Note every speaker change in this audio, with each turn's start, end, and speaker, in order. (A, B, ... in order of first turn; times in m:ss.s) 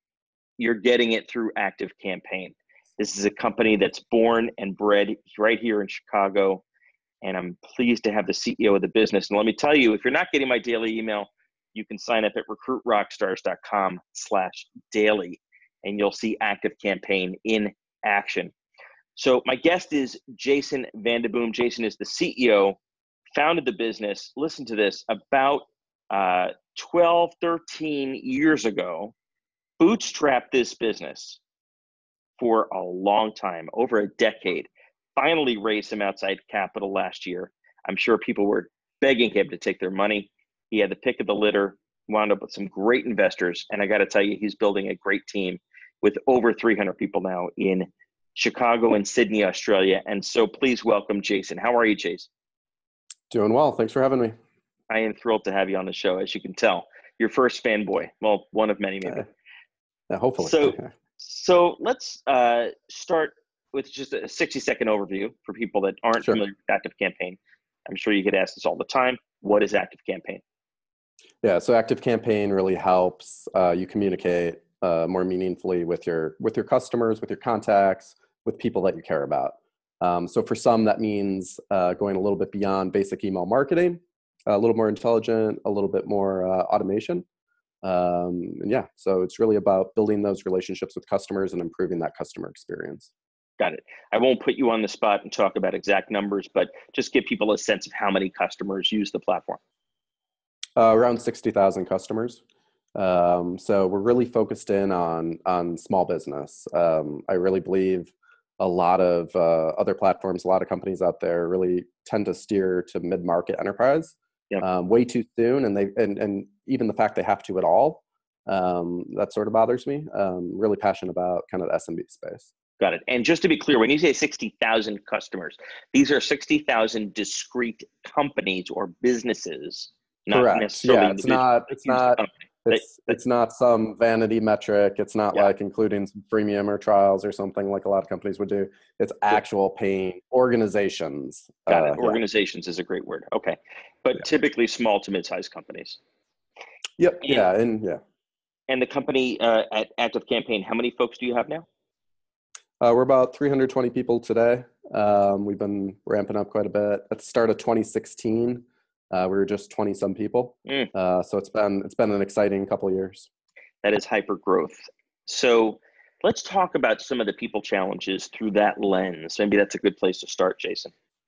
0:00.6-0:06.6 A
0:07.2-0:18.5 A
0:19.2-0:22.8 A
0:23.3-0:29.1 A
0:29.8-0:31.4 A
0:32.4-0:52.3 A
0:53.3-0:54.3 B
0:54.9-0:59.3 A
1:00.1-1:00.9 B
1:00.4-1:10.4 A
1:11.4-1:27.2 B
1:27.8-1:33.1 B
1:33.6-1:39.6 A
1:40.8-1:42.4 B
1:42.9-2:02.5 B
2:02.8-2:13.2 A
2:10.3-2:22.2 B
2:21.7-2:26.0 A
2:27.0-2:28.0 B
2:28.7-2:31.6 A
2:32.8-2:43.3 B
2:43.8-2:50.9 A